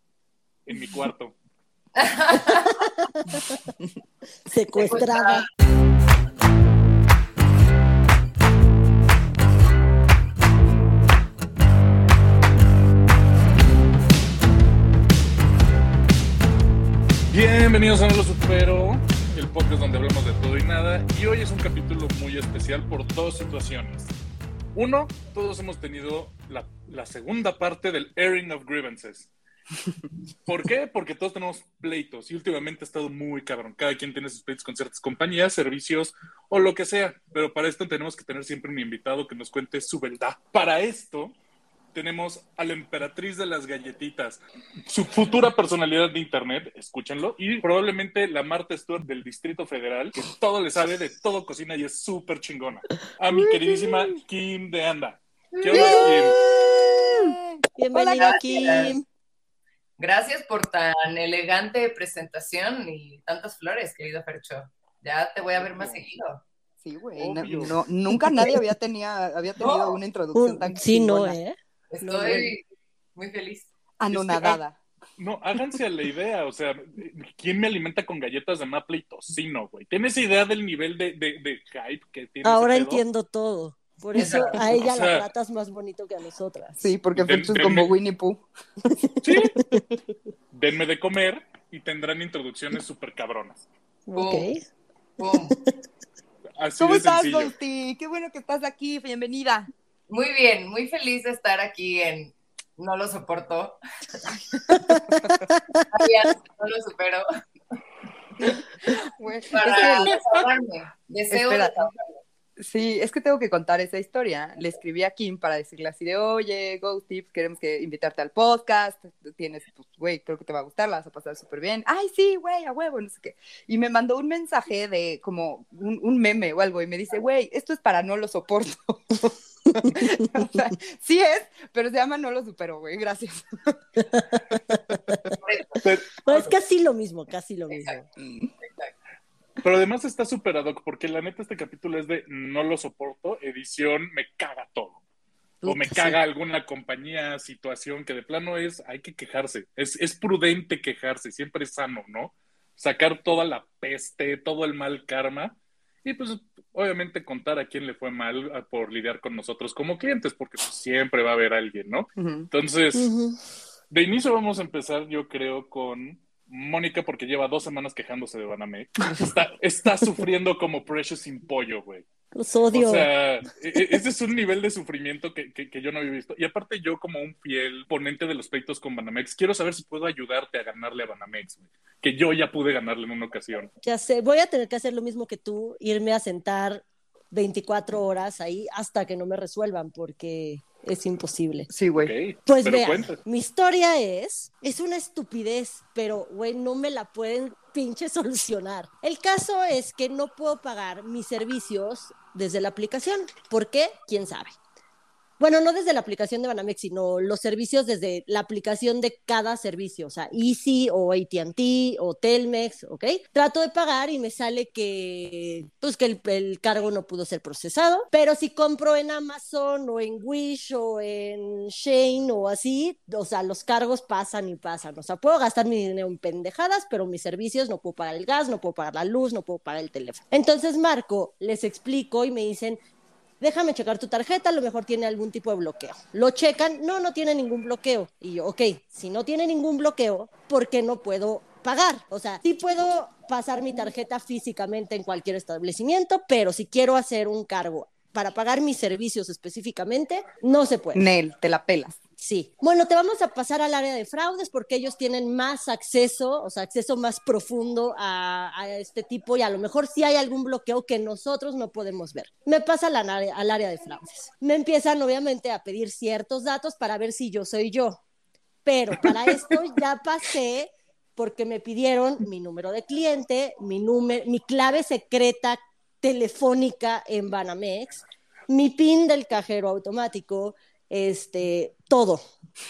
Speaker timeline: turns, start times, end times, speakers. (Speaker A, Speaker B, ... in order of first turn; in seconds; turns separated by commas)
Speaker A: 0.6-1.3, Speaker B: 1.9-2.8, Speaker C: 2.3-3.6, Speaker C: 4.5-5.4, Speaker B: 4.8-5.4, Speaker A: 17.3-24.1, Speaker A: 24.7-29.3, Speaker A: 30.4-41.4, Speaker A: 41.9-56.4, Speaker D: 53.3-54.1, Speaker B: 55.5-55.8, Speaker D: 55.7-57.4, Speaker C: 55.7-59.0, Speaker D: 57.9-58.3, Speaker B: 58.2-58.9, Speaker B: 60.0-66.4, Speaker A: 65.7-66.0, Speaker D: 66.8-71.4, Speaker A: 67.2-67.8, Speaker B: 69.6-70.0, Speaker C: 70.3-72.5, Speaker B: 71.9-72.6, Speaker B: 73.2-73.7, Speaker D: 74.0-74.8, Speaker A: 74.1-74.6, Speaker A: 75.2-83.0, Speaker C: 82.4-86.8, Speaker B: 84.2-84.7, Speaker A: 84.6-85.3, Speaker D: 86.8-88.4, Speaker A: 87.2-87.9, Speaker A: 89.2-89.5, Speaker A: 90.5-93.7, Speaker C: 94.1-94.6, Speaker B: 94.2-94.5, Speaker B: 95.2-95.6, Speaker A: 96.6-97.5, Speaker D: 96.8-99.7, Speaker B: 100.1-103.8, Speaker D: 104.5-105.4, Speaker C: 104.7-105.8, Speaker B: 105.9-107.2, Speaker D: 108.4-110.2, Speaker B: 109.5-112.2, Speaker C: 109.7-110.1, Speaker D: 111.3-111.9, Speaker D: 112.6-133.8, Speaker C: 134.1-135.3, Speaker B: 135.4-136.5, Speaker C: 136.2-138.1, Speaker D: 138.2-138.5, Speaker B: 138.6-138.9, Speaker A: 139.6-145.0, Speaker D: 145.6-146.1, Speaker A: 145.7-163.1, Speaker D: 162.2-162.5, Speaker C: 162.9-163.4, Speaker A: 163.9-172.1, Speaker C: 172.3-173.1, Speaker A: 172.7-183.7, Speaker C: 183.8-191.7, Speaker D: 191.7-192.1, Speaker A: 191.9-193.2, Speaker C: 192.4-204.6, Speaker C: 205.4-232.8, Speaker C: 233.4-251.0, Speaker D: 250.9-252.0, Speaker C: 252.2-268.0, Speaker C: 268.6-282.2